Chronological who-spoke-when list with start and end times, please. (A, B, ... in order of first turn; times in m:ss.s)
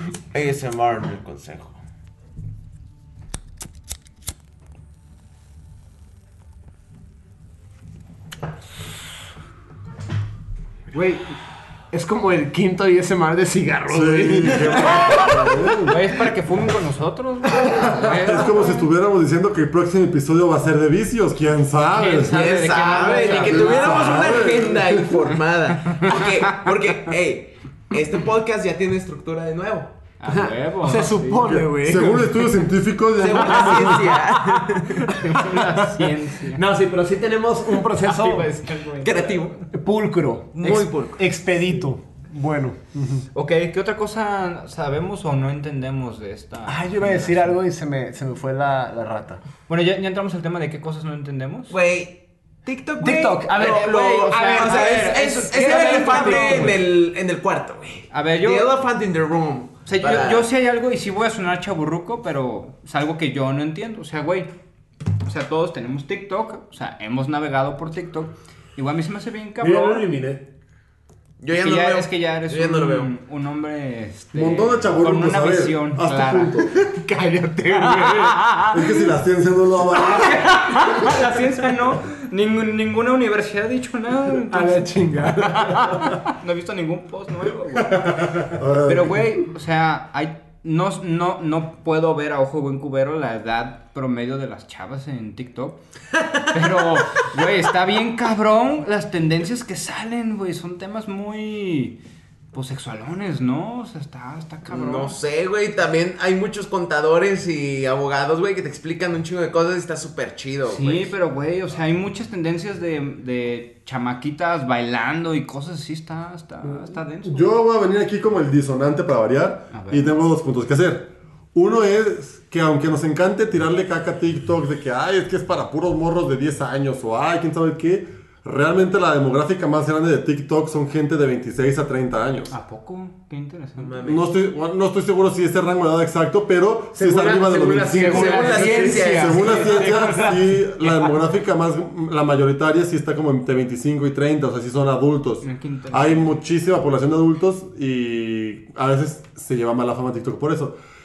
0:00.3-0:01.8 A
0:11.9-0:15.6 B
0:13.9-0:16.0 C
0:15.8-0:18.9 D
0:17.6-0:18.0 B
0:17.7-0:22.4 C
0:21.9-0:24.4 D
0:22.2-0:29.9 A
0:23.4-0:25.1 C
0:25.9-0:26.5 D
0:30.2-0:31.5 D
0:30.3-0:32.6 B
0:31.4-0:34.2 C
0:33.2-0:35.1 A
0:34.9-0:36.6 D
0:35.3-0:38.5 B
0:38.0-0:39.6 D
0:39.0-0:39.6 A
0:39.7-0:43.2 B
0:40.6-0:41.2 A
0:43.3-0:47.6 D
0:46.7-0:49.4 B
0:49.7-0:51.8 D
0:51.7-1:00.5 A
0:53.0-0:56.8 B
0:53.6-0:56.8 D
0:58.1-0:58.7 D
0:59.9-1:04.5 D
1:05.2-1:10.1 D
1:09.6-1:10.5 B
1:11.4-1:13.1 A
1:11.5-1:16.7 D
1:14.3-1:16.7 C
1:16.7-1:18.7 B
1:17.7-1:18.7 D
1:18.7-1:20.4 C
1:20.0-1:35.8 D
1:20.1-1:21.3 B
1:24.4-1:26.2 B
1:28.4-1:29.2 C
1:36.2-1:36.5 A
1:36.5-1:42.0 D
1:42.5-1:45.2 D
1:44.7-1:51.1 A
1:50.7-1:57.5 D
1:56.7-2:12.5 C
1:59.7-2:00.1 D
2:12.5-2:14.0 D
2:13.8-2:14.2 A
2:14.0-2:30.8 C
2:16.9-2:20.4 B
2:18.0-2:19.9 A
2:19.9-2:20.1 D
2:25.4-2:26.3 D